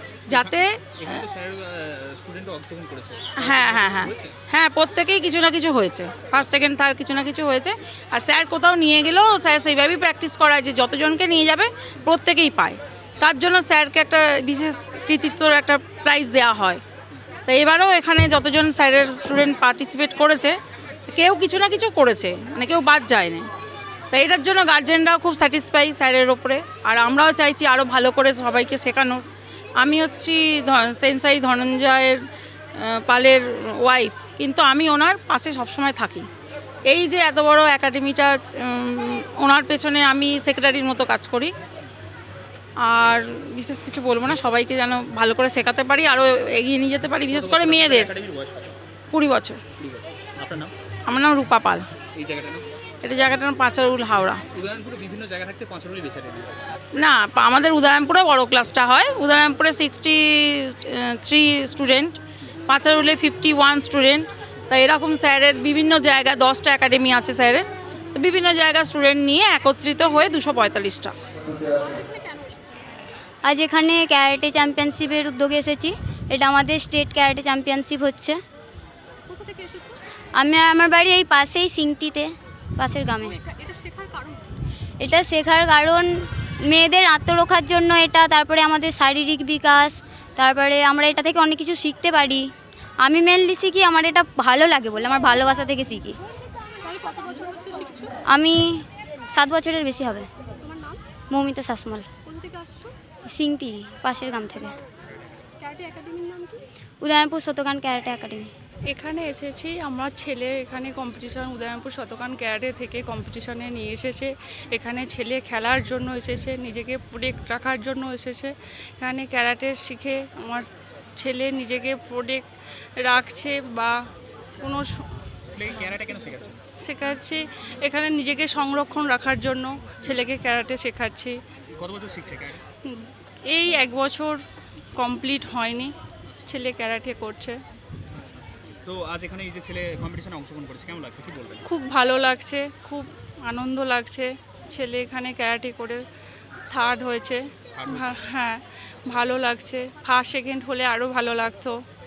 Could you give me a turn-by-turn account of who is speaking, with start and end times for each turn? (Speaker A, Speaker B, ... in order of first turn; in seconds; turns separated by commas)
Speaker A: 0.3-4.4, Speaker B: 0.3-1.2, Speaker B: 3.4-16.8, Speaker B: 17.4-20.5, Speaker B: 21.1-23.4, Speaker B: 24.1-29.2, Speaker B: 29.8-32.1, Speaker B: 33.0-36.2, Speaker B: 36.9-41.5, Speaker B: 42.9-48.1, Speaker A: 47.3-48.8, Speaker B: 49.1-49.6, Speaker A: 49.8-50.7, Speaker B: 51.1-51.8, Speaker A: 52.1-52.6, Speaker B: 53.0-54.4, Speaker A: 54.5-56.7, Speaker B: 57.0-71.1, Speaker C: 71.8-72.8, Speaker D: 73.4-78.4, Speaker C: 79.3-80.0, Speaker D: 80.3-83.4, Speaker C: 83.2-84.5, Speaker D: 85.0-86.1, Speaker D: 86.6-92.5, Speaker D: 93.0-96.2, Speaker C: 96.8-98.2, Speaker D: 98.2-100.3, Speaker C: 100.6-101.0, Speaker D: 101.3-102.1, Speaker C: 102.2-102.9, Speaker D: 103.3-104.7, Speaker C: 105.6-106.6, Speaker D: 107.0-108.5, Speaker E: 108.9-120.7, Speaker E: 121.2-122.4, Speaker E: 123.0-123.9, Speaker E: 124.6-124.9, Speaker A: 125.5-126.6, Speaker E: 126.8-131.3, Speaker A: 131.7-132.6, Speaker E: 133.5-134.4, Speaker E: 135.0-135.9, Speaker A: 136.2-136.6, Speaker E: 136.5-137.6, Speaker A: 138.1-141.7, Speaker E: 141.7-146.0, Speaker E: 146.7-147.4, Speaker A: 147.7-148.4, Speaker E: 148.3-148.6, Speaker A: 148.9-149.5, Speaker E: 149.1-151.8